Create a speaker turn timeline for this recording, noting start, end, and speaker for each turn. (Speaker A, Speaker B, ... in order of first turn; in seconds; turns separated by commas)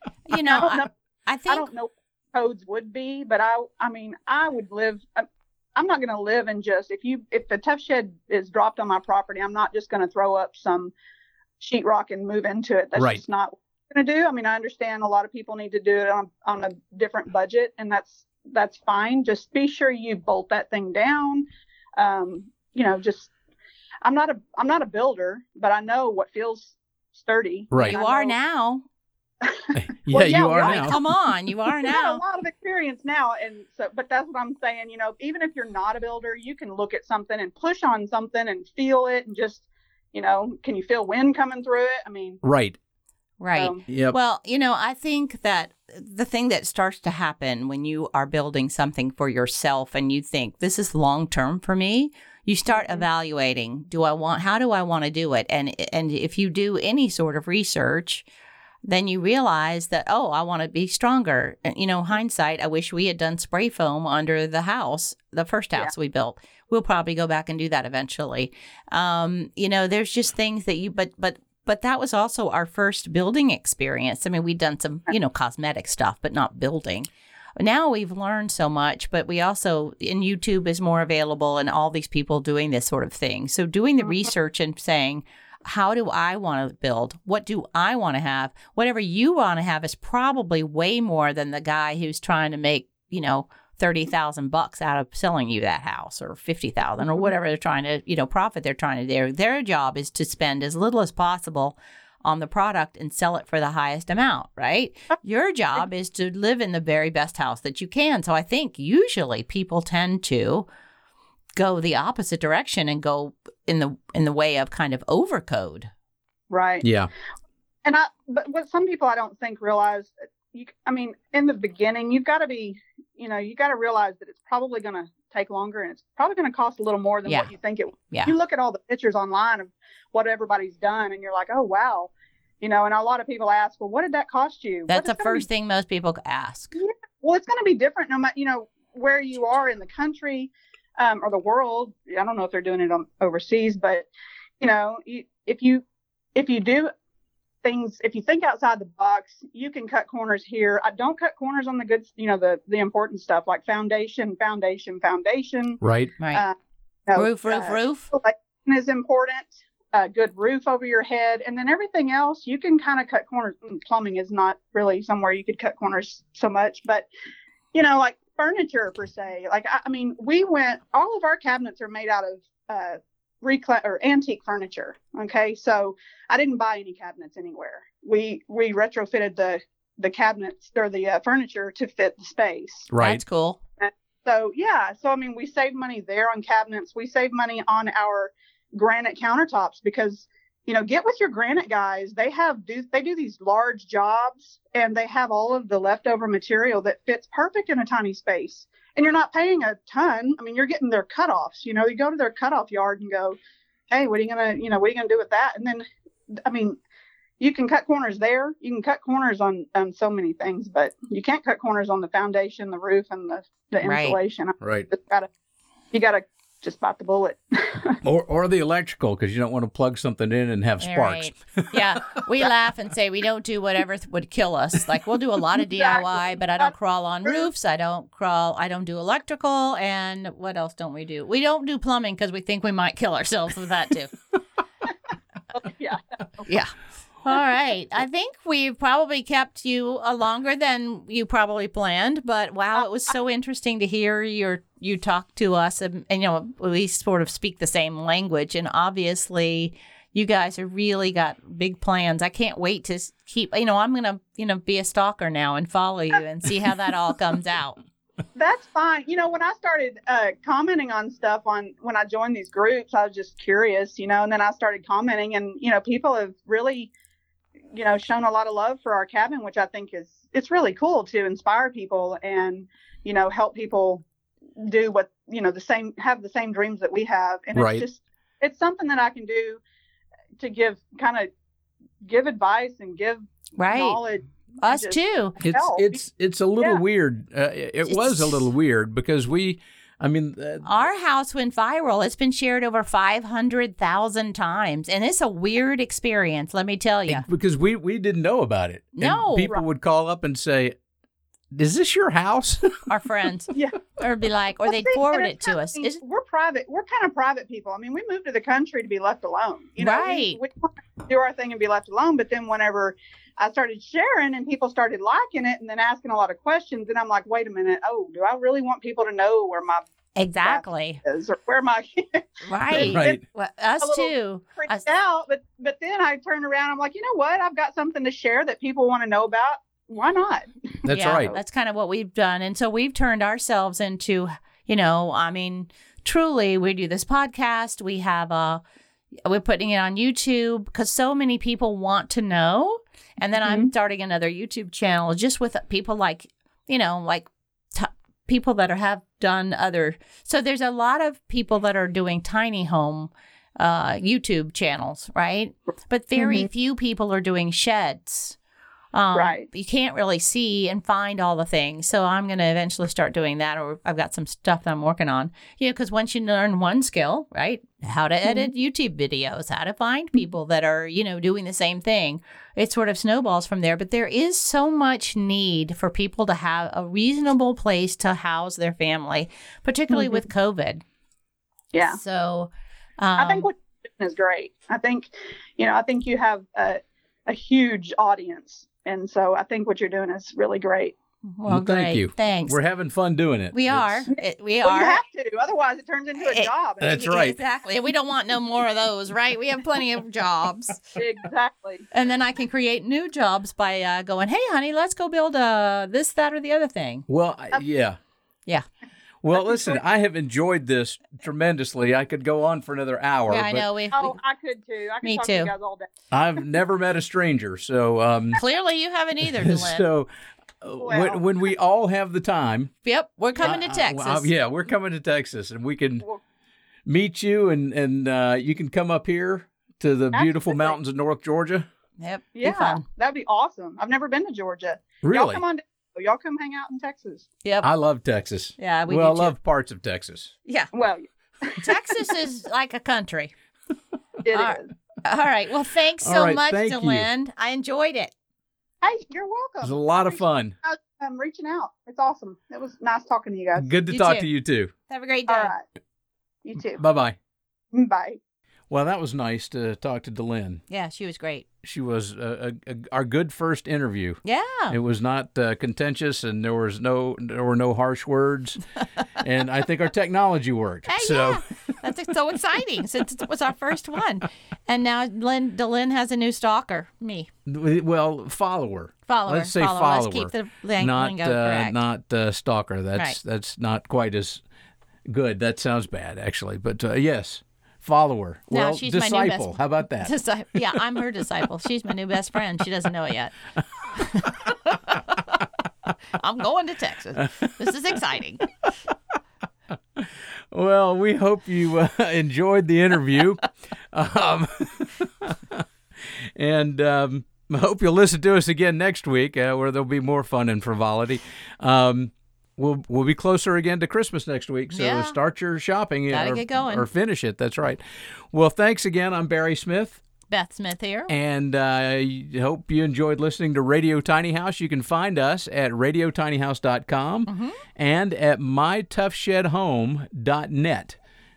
Speaker A: 0.3-1.7, Speaker B: 0.4-0.9, Speaker B: 1.5-10.9, Speaker B: 11.6-23.3, Speaker C: 12.9-13.2, Speaker B: 24.0-28.3, Speaker C: 27.7-27.9, Speaker A: 27.8-28.8, Speaker B: 29.4-31.1, Speaker C: 29.7-31.0, Speaker A: 30.6-32.2, Speaker B: 31.8-42.4, Speaker C: 42.4-42.8, Speaker A: 43.4-58.2, Speaker B: 43.5-43.8, Speaker C: 43.9-44.1, Speaker B: 52.7-53.0, Speaker A: 58.8-110.7, Speaker A: 111.5-115.9, Speaker B: 116.5-116.8, Speaker C: 116.8-117.1, Speaker B: 117.8-135.4, Speaker A: 127.2-127.5, Speaker A: 134.9-136.7, Speaker B: 136.8-144.1, Speaker B: 144.6-145.8, Speaker B: 146.3-146.9, Speaker B: 147.6-155.8, Speaker C: 155.8-156.1, Speaker B: 157.1-167.1, Speaker A: 157.1-158.1, Speaker B: 167.7-182.9, Speaker C: 182.9-183.2, Speaker A: 183.0-183.6, Speaker B: 183.8-203.4, Speaker B: 203.9-206.8, Speaker B: 207.4-215.3, Speaker A: 213.8-214.2, Speaker C: 214.6-214.9, Speaker B: 215.9-218.0, Speaker C: 218.0-222.2, Speaker A: 220.8-234.1, Speaker B: 225.8-226.7, Speaker B: 235.5-236.5, Speaker A: 236.4-257.8, Speaker B: 258.3-266.9, Speaker B: 267.7-274.0, Speaker B: 274.6-279.6, Speaker C: 277.5-277.8, Speaker B: 280.4-281.3, Speaker B: 282.0-286.0, Speaker A: 283.6-284.0, Speaker A: 284.6-285.4, Speaker C: 285.4-290.6, Speaker A: 287.9-288.4, Speaker A: 290.6-297.2, Speaker C: 297.1-300.8, Speaker A: 299.0-299.5, Speaker C: 301.5-302.8, Speaker A: 302.9-306.0, Speaker B: 304.7-319.8, Speaker A: 309.8-310.4, Speaker A: 320.2-321.0, Speaker B: 320.4-323.2, Speaker A: 322.4-324.9, Speaker C: 322.7-323.2, Speaker B: 323.8-331.4, Speaker C: 330.8-331.4, Speaker A: 330.9-338.6, Speaker A: 339.2-358.4, Speaker B: 343.4-343.7, Speaker B: 356.1-356.5, Speaker A: 358.9-380.8, Speaker B: 359.1-359.5, Speaker B: 379.9-380.2, Speaker B: 381.7-382.0, Speaker A: 381.9-383.5, Speaker B: 383.2-390.9, Speaker A: 391.4-392.6, Speaker C: 391.5-394.1, Speaker A: 393.5-395.0, Speaker B: 394.6-397.2, Speaker A: 396.2-400.8, Speaker C: 396.8-397.4, Speaker B: 400.9-401.9, Speaker A: 401.9-407.1, Speaker C: 407.1-408.0, Speaker C: 409.2-413.6, Speaker B: 409.4-409.8, Speaker A: 413.3-414.2, Speaker B: 413.9-415.9, Speaker A: 415.0-415.5, Speaker C: 416.1-418.4, Speaker A: 418.3-419.8, Speaker C: 419.2-420.1, Speaker C: 420.6-422.7, Speaker B: 420.8-421.2, Speaker A: 422.8-424.3, Speaker C: 423.4-426.1, Speaker C: 426.9-431.7, Speaker B: 430.1-430.8, Speaker A: 432.0-432.8, Speaker B: 432.4-437.3, Speaker C: 435.0-435.4, Speaker C: 437.6-440.3, Speaker A: 438.6-439.4, Speaker A: 440.4-440.7, Speaker B: 440.7-442.0, Speaker A: 441.6-443.3, Speaker B: 444.2-444.7, Speaker A: 444.3-448.1, Speaker C: 446.0-447.1, Speaker B: 448.8-453.7, Speaker C: 449.6-450.5, Speaker C: 453.6-454.7, Speaker A: 453.9-454.2, Speaker A: 454.9-455.5, Speaker B: 455.3-455.6, Speaker B: 456.4-456.8, Speaker C: 456.8-457.2, Speaker B: 457.7-458.2, Speaker C: 458.7-460.6, Speaker A: 460.7-461.4, Speaker C: 461.6-468.6, Speaker A: 464.2-464.8, Speaker C: 469.2-471.5, Speaker A: 470.9-477.3, Speaker C: 477.4-484.4, Speaker A: 479.1-481.8, Speaker C: 485.1-490.1, Speaker A: 488.5-493.4, Speaker A: 493.9-495.4, Speaker A: 496.1-498.4, Speaker C: 497.2-497.7, Speaker C: 499.9-520.0, Speaker A: 514.7-515.2, Speaker A: 516.1-516.9, Speaker A: 520.3-521.1, Speaker C: 521.1-531.0, Speaker A: 527.3-527.6